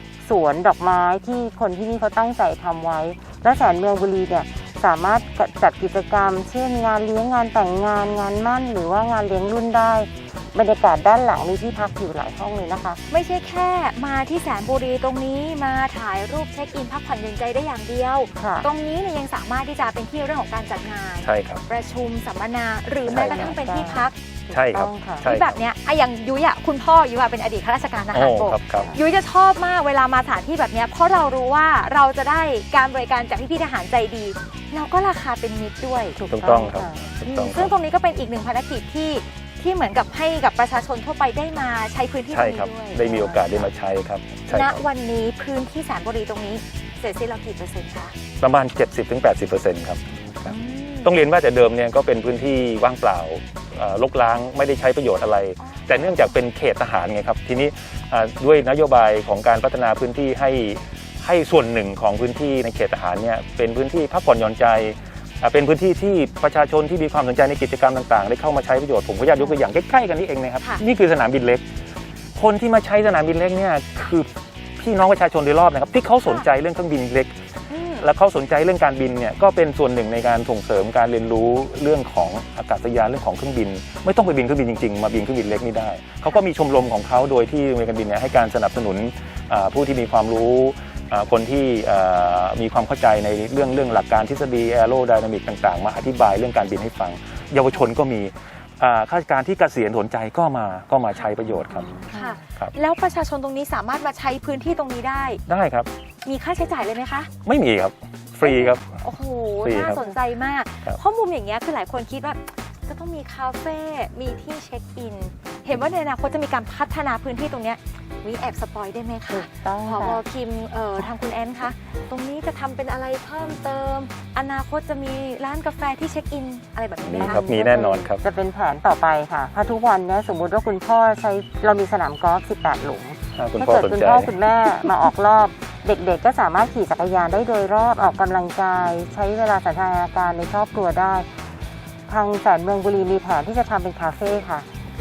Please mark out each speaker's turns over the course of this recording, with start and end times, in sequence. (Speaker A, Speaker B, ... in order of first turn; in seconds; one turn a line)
Speaker A: 0.2-13.0
Speaker B: 13.1-24.1
Speaker A: 18.4-18.7
Speaker C: 21.2-21.6
Speaker A: 23.1-25.3
Speaker C: 23.1-23.5
Speaker C: 24.5-25.6
Speaker B: 25.2-36.2
Speaker C: 28.1-28.9
Speaker A: 36.1-37.0
Speaker C: 36.3-37.7
Speaker B: 37.2-43.7
Speaker C: 42.3-44.8
Speaker B: 44.5-48.1
Speaker C: 48.4-71.6
Speaker B: 50.5-51.1
Speaker B: 55.6-56.3
Speaker C: 72.3-74.3
Speaker C: 74.8-77.3
Speaker B: 77.7-78.1
Speaker C: 78.0-101.9
Speaker A: 101.9-102.4
Speaker B: 102.1-105.4
Speaker C: 105.5-105.9
Speaker B: 106.2-107.3
Speaker C: 107.4-108.9
Speaker B: 108.4-128.0
Speaker C: 109.6-110.0
Speaker A: 119.3-120.2
Speaker C: 127.0-128.2
Speaker A: 127.2-141.3
Speaker C: 133.3-134.3
Speaker A: 142.1-144.7